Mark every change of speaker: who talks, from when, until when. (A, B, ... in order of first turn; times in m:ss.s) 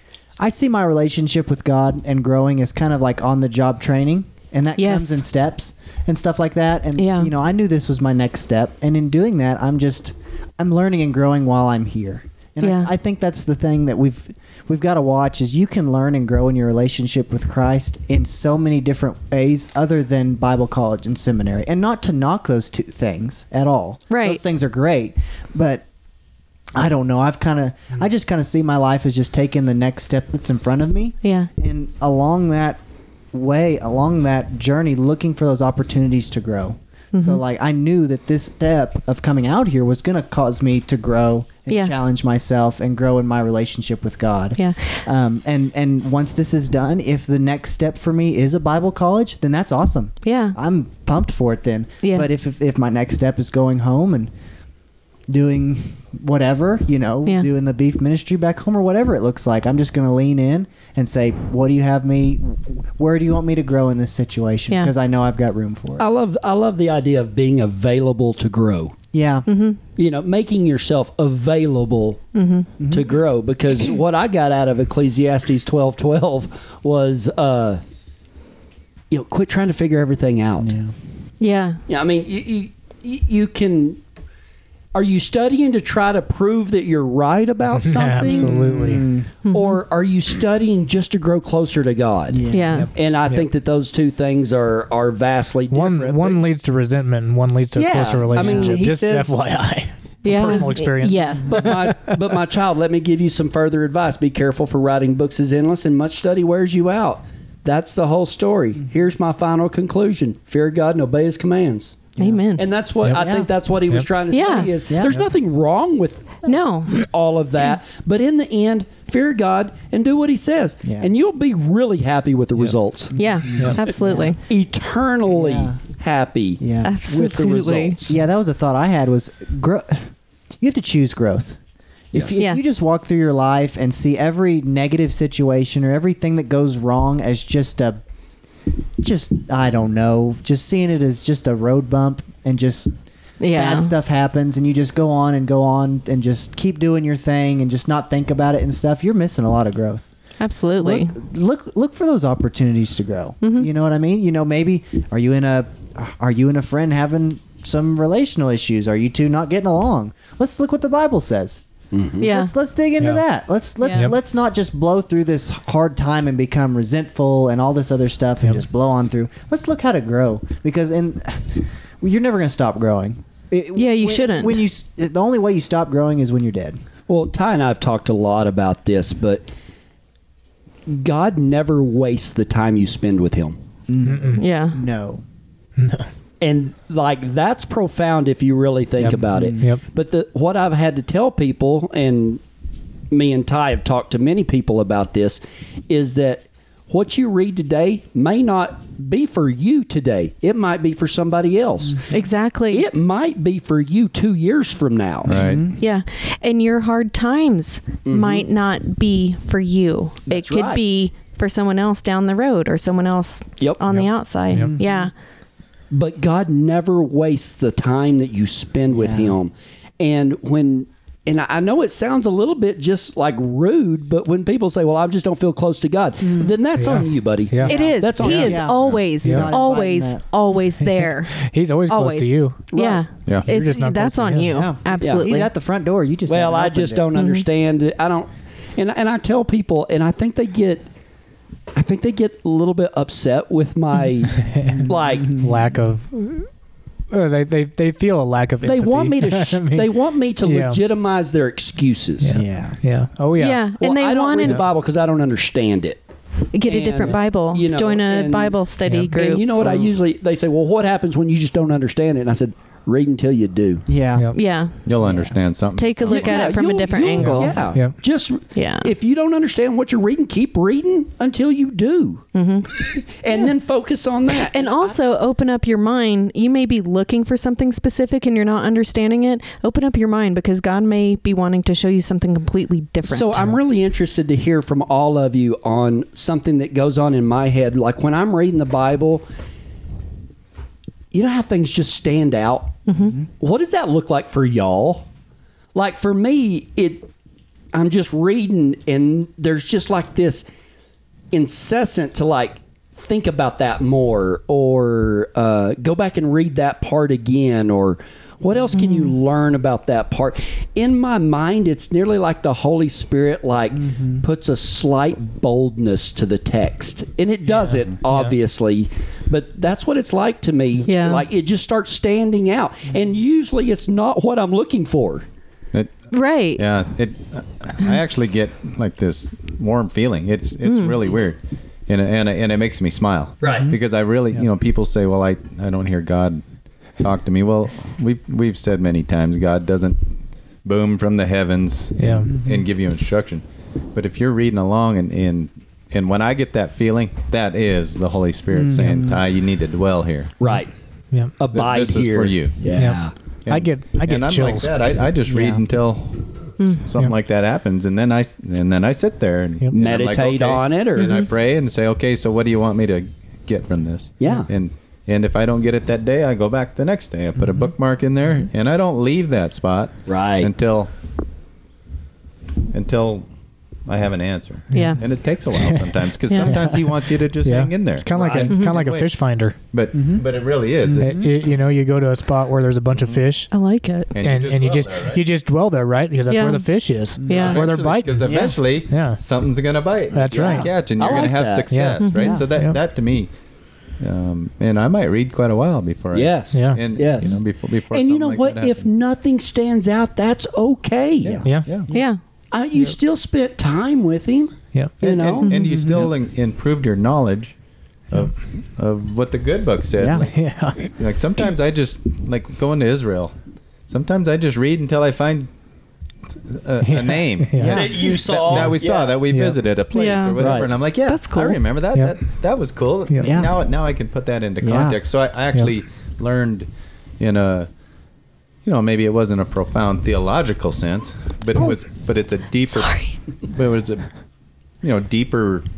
0:00.4-0:25.8 A
0:04.8-0:05.2 B
0:07.0-0:07.3 B
0:12.6-0:12.9 B
0:24.1-0:24.4 B
0:26.7-0:32.8 A
0:31.2-0:31.5 B
0:33.3-0:54.3 A
0:37.1-0:37.4 B
0:41.7-0:41.9 B
0:44.6-0:45.0 B
0:50.2-0:50.6 B
0:52.0-0:52.3 B
0:55.3-1:06.1 A
1:06.0-1:09.0 C
1:09.1-1:09.5 A
1:09.5-1:09.8 B
1:10.0-1:12.3 C
1:12.3-1:12.7 B
1:12.8-1:13.1 A
1:12.9-1:17.8 C
1:19.1-1:20.8 C
1:20.6-1:20.9 A
1:21.4-1:21.8 B
1:21.9-1:24.0 C
1:24.9-1:36.4 C
1:27.8-1:29.1 D
1:28.3-1:29.3 A
1:29.4-1:29.8 B
1:32.3-1:32.8 A
1:32.5-1:32.9 B
1:32.7-1:33.5 D
1:35.7-1:42.2 D
1:37.7-1:39.4 C
1:38.3-1:38.8 A
1:40.2-1:41.5 B
1:40.4-1:40.7 C
1:41.5-2:08.2 C
1:52.2-1:52.4 A
1:52.2-1:52.6 B
1:53.1-1:53.5 A
1:54.3-1:54.7 B
1:54.9-1:55.2 A
1:56.4-1:57.0 B
2:00.8-2:01.1 A
2:03.1-2:04.3 A
2:03.1-2:04.4 B
2:03.5-2:03.8 D
2:05.3-2:05.8 A
2:06.6-2:06.9 A
2:06.8-2:08.0 B
2:08.1-2:11.6 A
2:12.1-2:18.0 A
2:12.1-2:12.4 C
2:19.0-2:22.9 A
2:23.4-2:23.9 B
2:23.5-2:30.1 A
2:30.4-2:31.2 B
2:30.8-2:41.6 A
2:33.4-2:33.7 B
2:41.9-2:42.3 C
2:42.2-2:56.8 A
2:42.2-2:42.5 B
2:43.8-2:44.1 B
2:53.7-2:54.6 B
2:57.1-2:59.5 C
3:00.9-3:03.6 C
3:03.9-3:05.2 A
3:04.0-3:04.4 D
3:04.4-3:04.8 B
3:05.8-3:06.1 D
3:06.4-3:12.4 C
3:09.0-3:09.8 D
3:09.4-3:09.7 A
3:13.1-3:22.1 C
3:22.1-3:22.9 B
3:22.7-3:25.4 C
3:25.2-3:25.7 E
3:25.3-3:25.8 A
3:25.8-3:35.1 B
3:28.0-3:28.4 C
3:30.3-3:30.8 C
3:33.9-3:34.7 D
3:34.6-3:35.1 A
3:35.9-3:48.7 C
3:38.9-3:39.4 A
3:46.2-3:46.6 A
3:46.8-3:47.8 D
3:47.6-3:55.5 B
3:47.6-3:50.2 A
3:50.8-3:52.6 D
3:52.7-3:53.0 C
3:53.4-3:54.6 D
3:54.5-3:57.1 A
3:55.0-3:55.3 C
3:56.3-4:00.9 C
3:57.1-3:57.4 B
4:01.7-4:05.4 C
4:04.3-4:06.5 D
4:04.6-4:05.6 A
4:07.1-4:10.8 D
4:08.6-4:12.4 C
4:12.2-4:13.6 D
4:12.3-4:12.8 A
4:13.4-4:14.6 B
4:13.8-4:16.0 C
4:16.5-4:19.4 B
4:16.6-4:18.6 C
4:18.8-4:19.1 D
4:19.1-4:23.9 C
4:23.9-4:24.3 A
4:24.3-4:24.8 B
4:24.8-4:26.5 E
4:25.0-4:25.4 A
4:25.8-4:27.6 B
4:26.1-4:34.9 C
4:27.2-4:28.0 D
4:28.5-4:28.9 B
4:32.3-4:32.8 B
4:34.3-4:43.4 B
4:43.0-4:49.2 C
4:51.1-4:55.1 C
4:52.9-4:53.2 B
4:55.7-4:57.1 C
4:57.7-5:00.4 C
5:01.3-5:25.2 C
5:08.7-5:09.1 B
5:13.8-5:14.2 A
5:17.5-5:18.3 D
5:20.8-5:21.3 B
5:26.1-5:26.6 B
5:26.6-5:36.4 E
5:30.6-5:31.0 B
5:33.4-5:33.7 C
5:33.5-5:33.8 A
5:37.0-5:40.1 E
5:40.6-5:50.3 E
5:42.0-5:42.4 D
5:42.3-5:42.6 A
5:48.5-5:49.2 A
5:50.4-5:50.7 C
5:50.4-5:51.4 D
5:51.4-5:53.1 C
5:51.5-5:52.7 E
5:52.7-5:54.7 D
5:53.4-6:10.9 E
5:55.3-5:55.6 A
5:56.6-5:56.9 B
5:59.7-6:01.2 C
6:04.2-6:04.5 C
6:10.1-6:10.5 C
6:12.7-6:13.3 E
6:13.8-6:19.2 E
6:14.7-6:19.6 D
6:14.7-6:15.0 B
6:16.3-6:16.5 B
6:18.1-6:18.5 C
6:18.5-6:18.8 B
6:19.7-6:21.5 E
6:19.9-6:20.2 A
6:20.8-6:21.2 A
6:21.0-6:23.5 D
6:23.5-6:24.1 B
6:24.1-6:25.2 E
6:24.2-6:29.2 D
6:26.3-6:26.6 B
6:27.2-6:27.6 A
6:27.2-6:27.6 B
6:27.3-6:33.3 E
6:28.2-6:28.5 A
6:30.1-6:30.7 D
6:30.3-6:31.7 C
6:31.7-6:32.8 D
6:32.0-6:32.4 B
6:34.0-6:38.9 E
6:36.1-6:41.4 C
6:36.5-6:37.3 D
6:41.2-6:42.0 A
6:41.3-6:41.9 E
6:41.4-6:41.7 D
6:41.9-6:42.2 B
6:42.5-6:45.5 C
6:44.7-6:45.0 D
6:45.0-6:47.5 E
6:45.5-6:46.1 A
6:48.1-6:53.3 E
6:50.0-6:50.3 A
6:50.2-6:50.9 D
6:53.9-6:55.5 E
6:56.3-7:06.7 E
6:56.8-6:57.9 D
6:57.6-6:58.2 A
6:57.6-6:59.2 C
6:58.5-6:58.8 D
6:59.3-6:59.6 D
6:59.9-7:01.6 B
7:00.4-7:00.7 C
7:01.9-7:02.2 D
7:03.2-7:03.5 A
7:04.6-7:05.0 A
7:07.2-7:07.7 E
7:08.6-7:14.1 E
7:12.7-7:13.2 B
7:14.8-7:15.6 E